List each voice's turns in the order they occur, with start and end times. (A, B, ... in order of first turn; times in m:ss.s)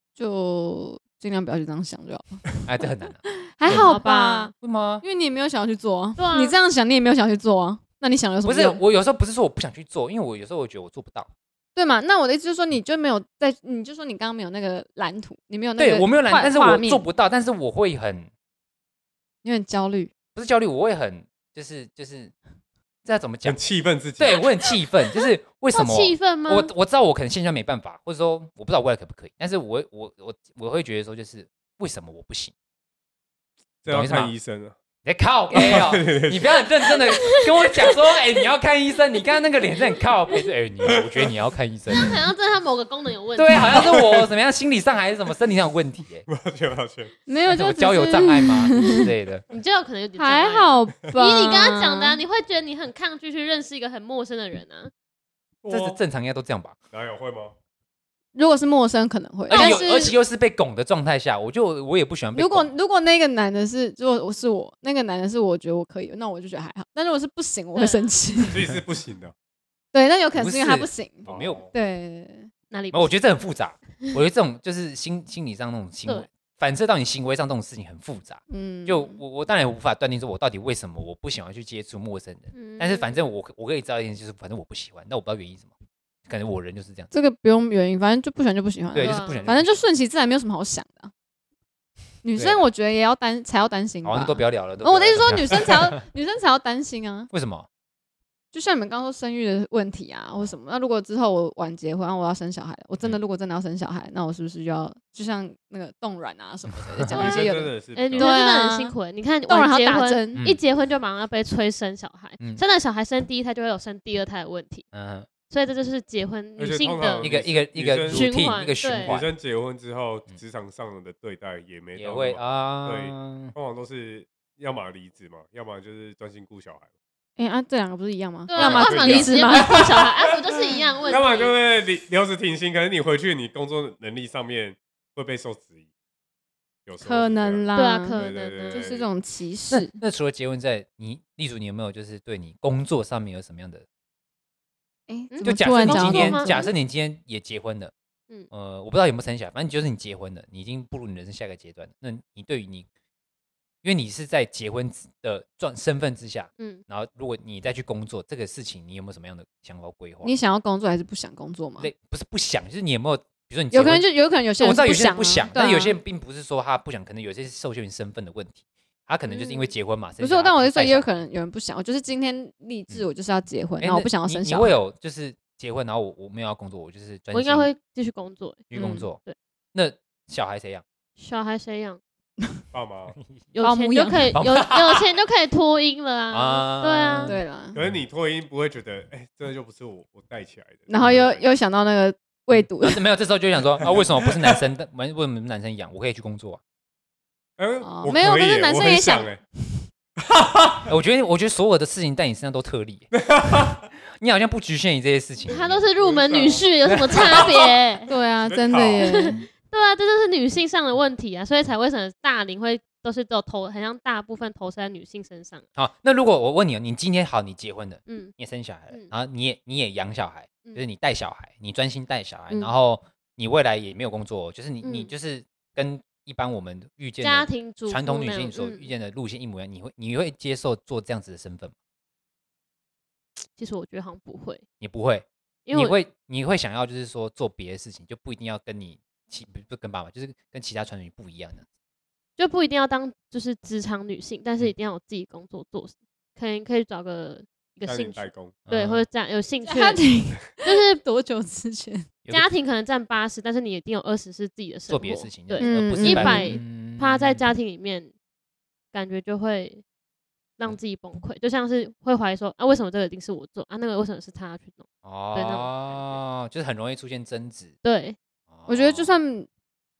0:00.2-0:02.4 A
0:02.6-0:04.0 B
0:03.5-0:08.8 A
0:03.6-0:04.5 C
0:04.6-0:05.0 B
0:06.2-0:06.5 C
0:08.4-0:11.3 B
0:11.8-0:17.0 A
0:15.8-0:18.3 B
0:19.4-0:20.1 A
0:20.3-0:22.3 B
0:23.0-0:23.6 B
0:23.4-0:24.4 D
0:24.2-0:32.5 B
0:25.7-0:26.7 C
0:33.8-0:34.7 D
0:33.9-0:34.3 B
0:35.0-0:42.2 B
0:35.5-0:36.5 D
0:36.9-0:38.0 C
0:40.8-0:41.3 D
0:41.9-0:44.0 C
0:43.4-0:46.3 B
0:43.7-0:44.3 D
0:46.3-0:47.1 D
0:47.3-0:49.0 A
0:47.5-0:49.4 B
0:48.9-0:54.9 C
0:50.2-0:52.2 A
0:55.6-0:56.0 D
0:55.7-0:56.8 B
0:56.9-0:57.5 D
0:58.3-1:00.1 A
0:59.5-1:00.2 C
0:59.5-1:02.7 B
1:02.3-1:08.7 A
1:07.7-1:08.1 C
1:08.5-1:09.3 D
1:09.9-1:12.5 A
1:10.3-1:11.6 B
1:11.2-1:11.7 D
1:12.7-1:13.2 C
1:12.9-1:25.7 B
1:18.5-1:19.2 A
1:22.5-1:23.2 C
1:26.3-1:27.1 B
1:27.1-1:31.1 A
1:28.9-1:29.8 B
1:29.0-1:29.5 C
1:32.2-1:37.3 A
1:32.3-1:32.6 B
1:34.0-1:36.0 B
1:37.3-1:37.7 B
1:38.5-1:48.9 A
1:46.7-1:47.2 B
1:47.1-1:48.3 D
1:47.2-1:47.4 C
1:47.9-1:54.8 C
1:49.5-1:50.4 A
1:54.9-1:55.3 B
1:55.5-1:57.3 C
1:56.6-1:58.3 D
1:57.2-1:59.3 B
1:58.1-1:59.2 C
1:58.9-2:06.9 D
2:01.9-2:03.5 B
2:07.4-2:09.8 A
2:08.5-2:11.5 C
2:08.6-2:15.8 D
2:16.8-2:19.1 D
2:17.0-2:18.2 A
2:17.7-2:18.9 C
2:18.7-2:20.0 A
2:19.7-2:23.8 B
2:25.1-2:26.7 A
2:25.3-2:26.7 C
2:25.4-2:27.9 B
2:28.5-2:32.8 B
2:33.8-2:40.3 B
2:40.2-2:41.9 A
2:41.8-2:51.1 B
2:43.7-2:46.0 A
2:49.3-2:49.7 C
2:50.2-2:54.7 A
2:53.8-2:57.7 B
2:57.3-2:59.4 C
2:58.7-2:59.2 B
2:58.7-2:59.0 A
2:59.7-3:00.8 B
3:01.2-3:02.0 C
3:02.7-3:03.2 D
3:03.5-3:07.3 C
3:03.6-3:04.3 A
3:04.3-3:05.1 B
3:06.3-3:08.0 B
3:07.2-3:07.8 A
3:07.7-3:11.4 D
3:10.9-3:13.0 A
3:12.5-3:16.6 B
3:13.8-3:14.6 D
3:17.6-3:19.4 D
3:17.8-3:19.8 A
3:20.2-3:20.9 D
3:20.9-3:23.1 B
3:23.2-3:23.8 D
3:24.2-3:25.9 B
3:25.5-3:28.1 C
3:26.0-3:27.7 D
3:28.1-3:29.4 A
3:28.4-3:29.2 D
3:29.0-3:35.6 C
3:35.8-3:51.7 B
3:38.1-3:38.3 C
3:44.8-3:45.1 C
3:47.2-3:48.9 C
3:53.6-3:54.6 C
3:54.8-4:01.6 B
3:55.7-3:55.9 C
4:02.4-4:11.0 C
4:07.8-4:08.6 D
4:08.7-4:09.0 B
4:09.6-4:12.1 A
4:12.3-4:18.1 C
4:14.9-4:17.4 B
4:15.6-4:16.6 A
4:18.9-4:19.8 C
4:20.6-4:26.2 C
4:25.0-4:27.7 B
4:27.8-4:28.2 C
4:28.5-4:29.2 B
4:28.7-4:29.5 A